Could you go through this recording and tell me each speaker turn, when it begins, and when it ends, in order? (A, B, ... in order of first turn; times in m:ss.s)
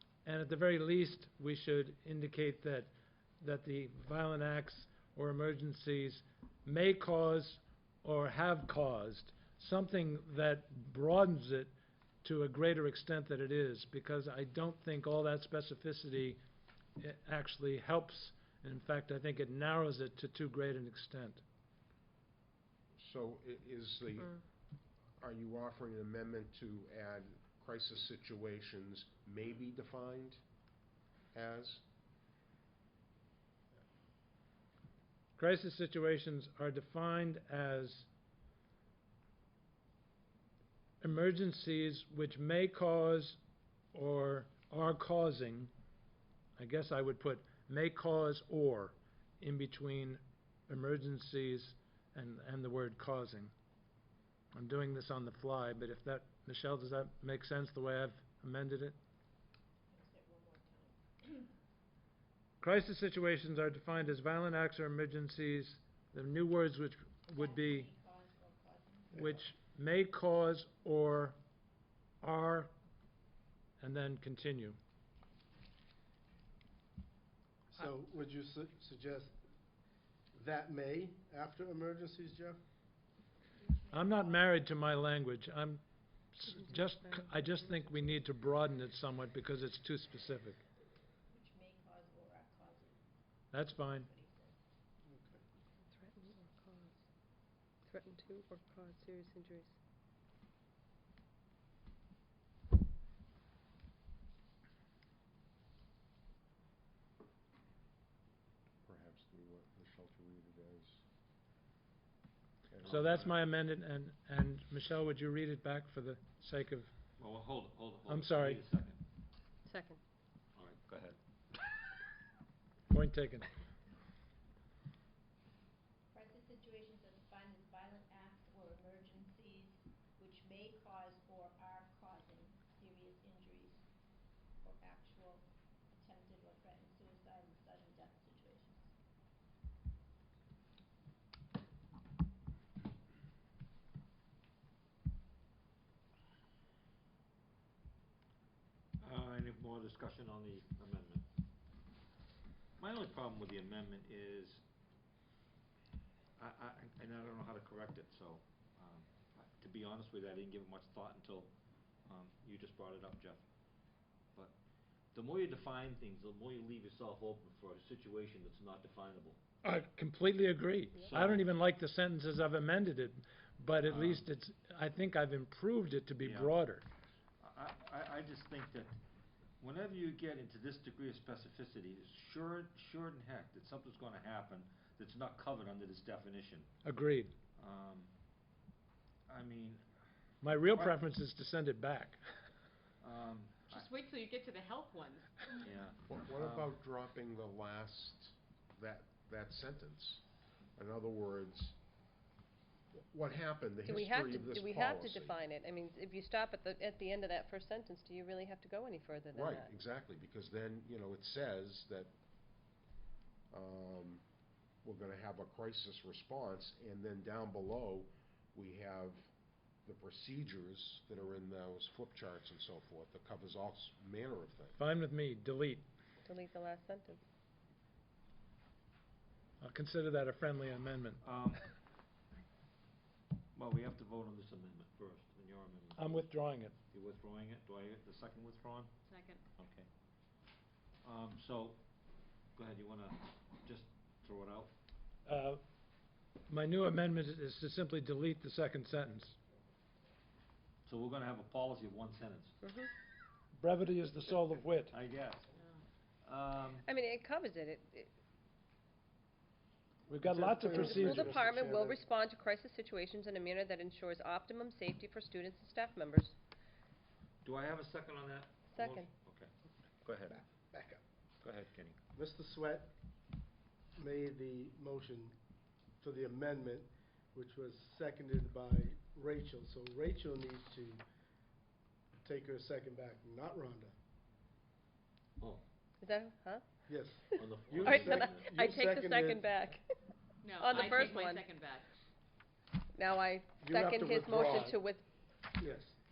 0:00.2-0:02.9 A
0:03.4-0:11.7 A
0:12.2-0:16.4 A
0:17.0-0:21.4 A
0:23.0-0:24.4 B
0:25.2-0:30.4 B
0:31.3-0:31.8 B
0:35.4-0:38.1 A
0:41.0-0:43.4 A
0:43.9-0:45.7 A
0:46.6-0:53.5 A
0:54.5-0:59.0 A
0:59.9-1:01.5 C
1:02.6-1:07.9 A
1:07.3-1:09.2 C
1:09.1-1:11.4 A
1:12.2-1:12.7 A
1:13.8-1:14.8 A
1:17.7-1:19.4 D
1:20.3-1:22.6 D
1:23.5-1:24.4 C
1:23.9-1:30.6 A
1:31.3-1:33.0 C
1:33.5-1:34.1 A
1:33.6-1:34.6 C
1:35.0-1:35.4 D
1:35.9-1:37.0 E
1:37.8-1:39.7 E
1:48.8-1:51.0 B
1:52.7-1:53.0 B
1:52.8-1:53.4 F
1:52.8-1:56.9 A
1:57.2-1:59.0 F
1:58.1-1:58.6 A
1:59.6-2:00.0 E
2:00.6-2:01.2 F
2:02.9-2:03.5 A
2:06.1-2:13.8 C
2:14.6-2:18.9 C
2:29.0-2:31.2 F
2:32.8-2:34.6 F
2:36.4-2:41.5 F
2:42.0-2:43.4 F
2:45.1-2:49.4 F
2:49.6-2:56.8 A
2:51.0-2:51.4 F
2:53.8-2:54.2 F
2:56.2-2:56.5 F
2:57.4-2:58.9 F
2:59.6-3:06.7 F
3:06.8-3:07.3 A
3:07.6-3:08.1 F
3:09.3-3:09.8 F
3:10.4-3:12.2 A
3:13.0-3:13.9 F
3:13.7-3:15.4 G
3:15.6-3:16.7 F
3:16.1-3:20.2 B
3:20.7-3:21.8 B
3:23.0-3:25.4 B
3:23.8-3:29.7 E
3:29.3-3:32.1 B
3:33.5-3:34.2 B
3:34.8-3:39.3 B
3:39.8-3:44.8 B
3:44.8-3:45.8 A
3:46.2-3:47.2 E
3:49.6-3:51.2 A
3:51.2-3:51.7 F
3:53.5-3:56.2 F
3:56.0-3:56.7 A
3:56.9-3:58.9 F
3:59.0-3:59.4 G
3:59.6-3:59.9 F
4:01.0-4:01.8 F
4:02.5-4:04.7 F
4:05.2-4:05.6 A
4:06.5-4:09.4 A
4:10.8-4:12.6 F
4:12.6-4:12.9 E
4:13.6-4:14.9 A
4:14.9-4:15.5 F
4:16.2-4:16.8 F
4:16.8-4:18.1 E
4:20.1-4:21.4 A
4:20.2-4:22.1 D
4:20.7-4:26.3 E
4:27.4-4:29.5 F
4:28.7-4:29.1 E
4:30.0-4:30.4 F
4:30.3-4:31.0 D
4:31.4-4:32.0 F
4:32.1-4:32.9 D
4:34.0-4:35.3 D
4:36.0-4:41.0 D
4:42.2-4:43.9 D
4:46.0-4:46.6 E
4:46.9-4:49.5 D
4:47.3-4:49.8 E
4:47.4-4:48.5 F
4:50.4-4:51.8 G
4:50.4-4:51.4 C
4:50.6-4:51.4 E
4:52.9-4:55.0 E
4:53.6-4:54.8 D
4:55.6-4:55.9 D